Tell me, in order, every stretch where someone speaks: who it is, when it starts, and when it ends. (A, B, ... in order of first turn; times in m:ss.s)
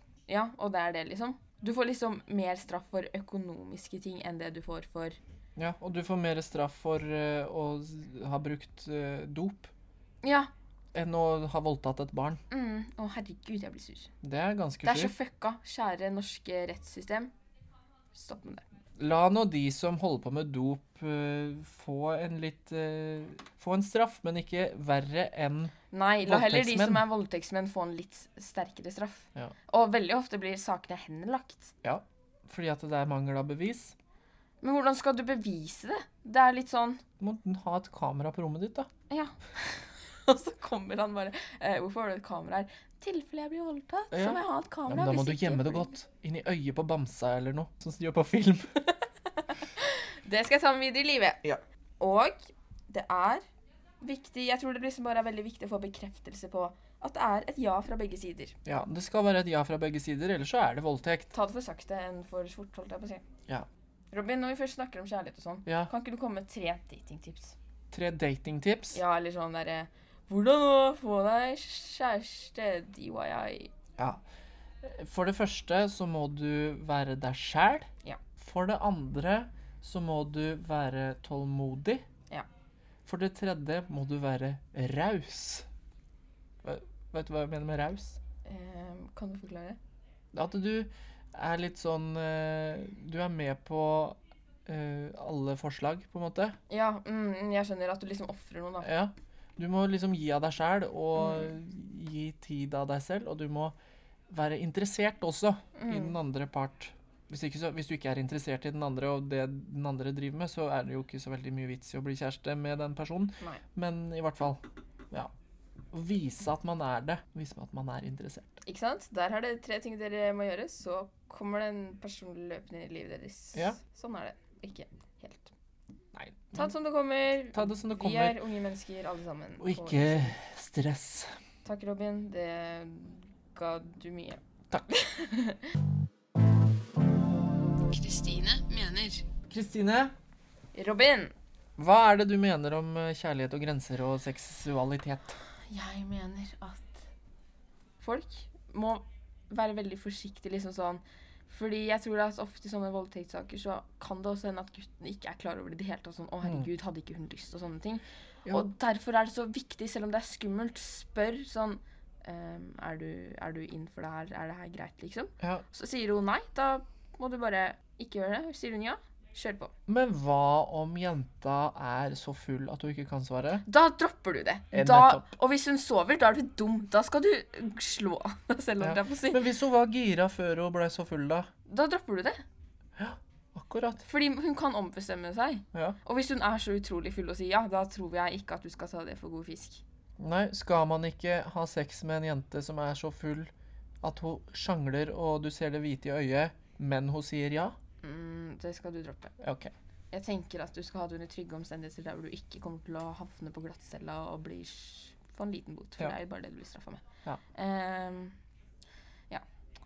0:00.3-0:05.2 A
0:05.6-0:09.7 B
0:10.2-0:10.5 A
0:10.9-0:12.4 B
0:12.5-0:14.1 A
0:14.2-0:15.1 B
0:14.8-0:17.3 A
0:18.1-0:18.6 A
0:19.0-0:27.0 B
0:25.9-0:31.7 A
0:31.8-0:33.9 B
0:34.6-0:37.0 A
0:37.2-0:38.9 B
0:39.1-0:45.9 A
0:44.1-0:48.7 B
0:49.4-0:51.4 A
0:52.0-0:53.4 A
0:54.0-0:58.6 A
0:58.6-1:01.3 B
1:01.3-1:03.3 A
1:04.1-1:07.6 A
1:07.9-1:09.0 B
1:08.9-1:13.7 A
1:14.8-1:22.0 B
1:23.0-1:25.7 B
1:26.6-1:28.2 B
1:28.4-1:29.8 A
1:30.3-1:36.6 B
1:36.7-1:38.9 A
1:38.8-1:43.7 B
1:41.2-1:41.5 A
1:44.3-1:54.6 B
1:45.7-1:46.2 A
1:55.9-1:58.6 B
1:58.6-2:05.5 A
2:06.1-2:06.7 B
2:06.5-2:10.3 A
2:07.5-2:08.4 B
2:09.6-2:11.3 B
2:11.6-2:15.7 A
2:17.9-2:19.3 A
2:19.5-2:20.1 B
2:20.7-2:21.3 A
2:21.8-2:25.4 B
2:25.7-2:27.0 A
2:28.0-2:49.7 A
2:49.9-2:53.6 B
2:53.6-2:59.4 A
2:54.7-2:55.2 B
2:58.8-3:01.5 B
3:01.7-3:02.4 A
3:03.0-3:04.0 B
3:04.0-3:09.8 A
3:10.2-3:13.5 B
3:14.0-3:17.8 B
3:18.0-3:19.3 A
3:19.4-3:19.7 B
3:20.1-3:28.4 A